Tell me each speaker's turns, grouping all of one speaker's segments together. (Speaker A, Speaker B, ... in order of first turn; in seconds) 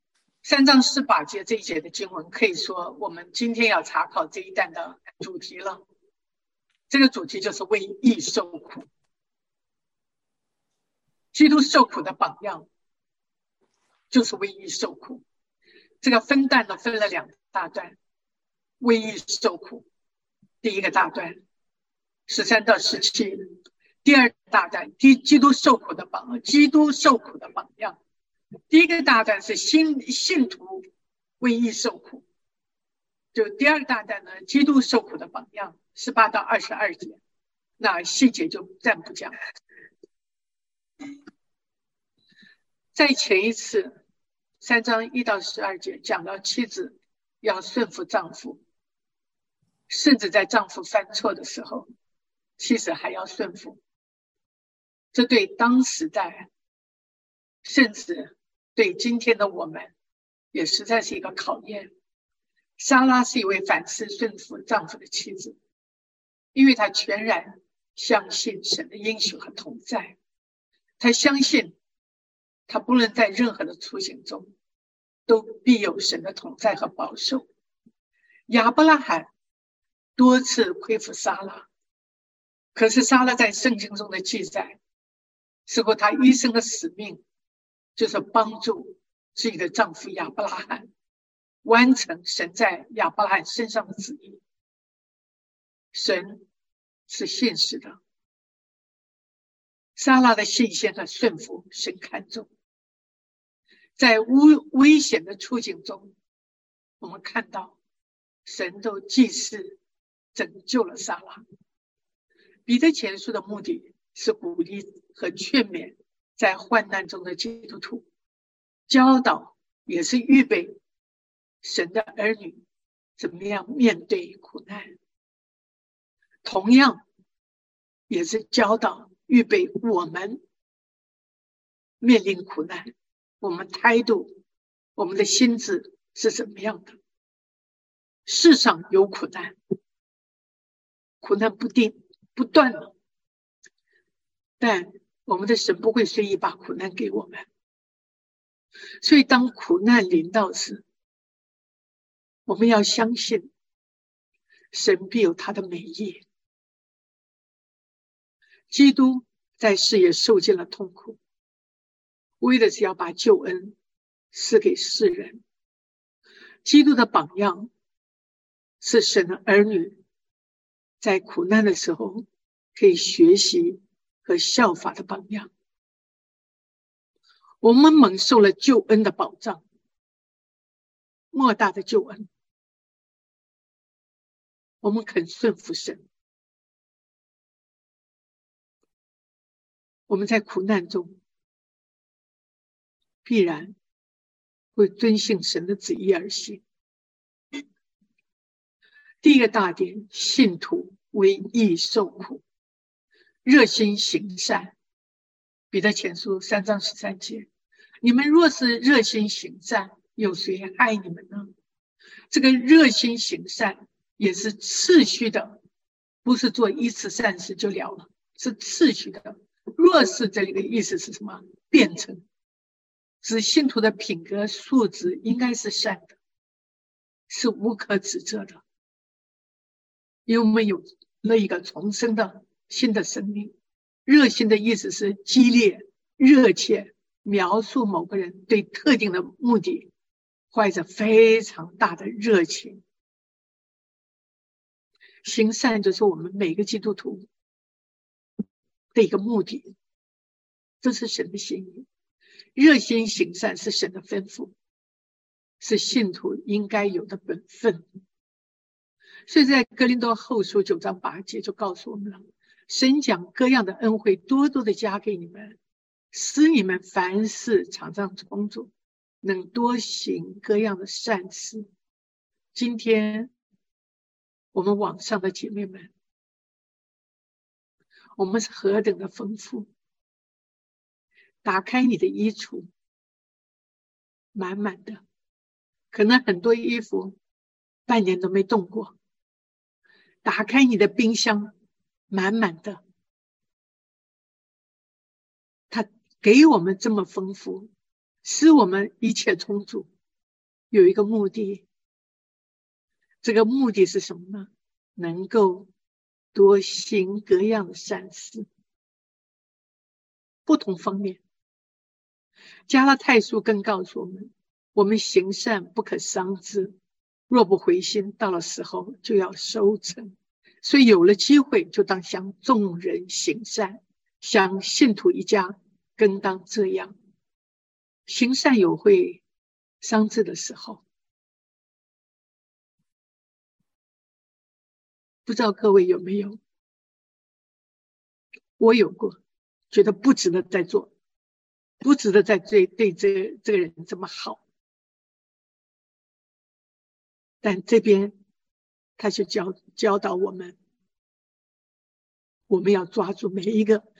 Speaker A: 0.4-5.8, 6.9-8.9, 11.3-12.7, 14.1-15.2, 16.0-18.0, 18.8-19.8, 20.6-21.4, 22.3-23.5, 24.0-28.0, 28.7-30.8, 31.4-32.2, 33.3-37.2, 37.8-39.4, 42.9-44.0, 44.6-48.6, 49.9-51.9, 52.6-53.8, 55.1-56.5, 57.6-59.9, 60.5-61.9, 62.8-65.5, 66.5-70.2, 71.0-71.7, 72.7-74.5, 75.3-77.5, 78.5-79.3, 80.2-81.7, 82.7-84.8, 85.7-87.2, 88.0-90.9, 91.6-94.4, 95.9-96.4, 97.1-98.0, 100.0-102.5, 104.0-106.1, 107.0-107.8, 108.4-109.8, 110.3-111.4, 112.7-118.0, 118.9-120.8, 121.6-122.6, 123.2-124.9, 126.4-127.0, 128.1-130.4, 132.0-134.3, 135.0-137.0, 138.2-139.6, 141.2-142.9, 144.6-147.5, 149.0-150.8, 152.5-153.5, 154.7-156.2, 158.7-161.2, 162.4-163.8, 164.3-165.4, 166.7-167.7, 168.8-170.0, 171.0-175.5, 177.6-179.6, 181.3-182.3, 184.8-186.0, 190.1-191.2, 193.2-193.8, 194.8-196.6, 199.2-202.4, 203.4-204.7, 205.7-207.5, 208.0-211.5, 212.3-215.6, 216.2-222.2, 223.2-226.2, 227.3-228.6, 230.3-233.5, 234.1-239.9, 240.5-242.8, 245.2-247.3, 248.9-249.7, 250.8-251.8, 252.6-254.5, 255.6-257.9, 259.3-265.6, 266.1-268.7, 269.2-271.7, 272.5-273.3, 274.5-275.9, 278.2-279.7, 281.4-282.7, 284.4-285.0, 285.9-287.1, 287.9-288.9, 290.2-291.5, 292.1-292.8, 295.7-297.7, 298.2-299.9, 300.7-301.6, 303.2-305.7, 306.3-308.5, 310.5-311.2, 312.7-316.8, 317.3-326.9, 328.1-329.2, 329.8-330.8, 335.2-336.4, 338.6-339.2, 339.7-340.9, 341.8-344.4, 347.4-348.1, 349.0-350.6, 352.5-353.8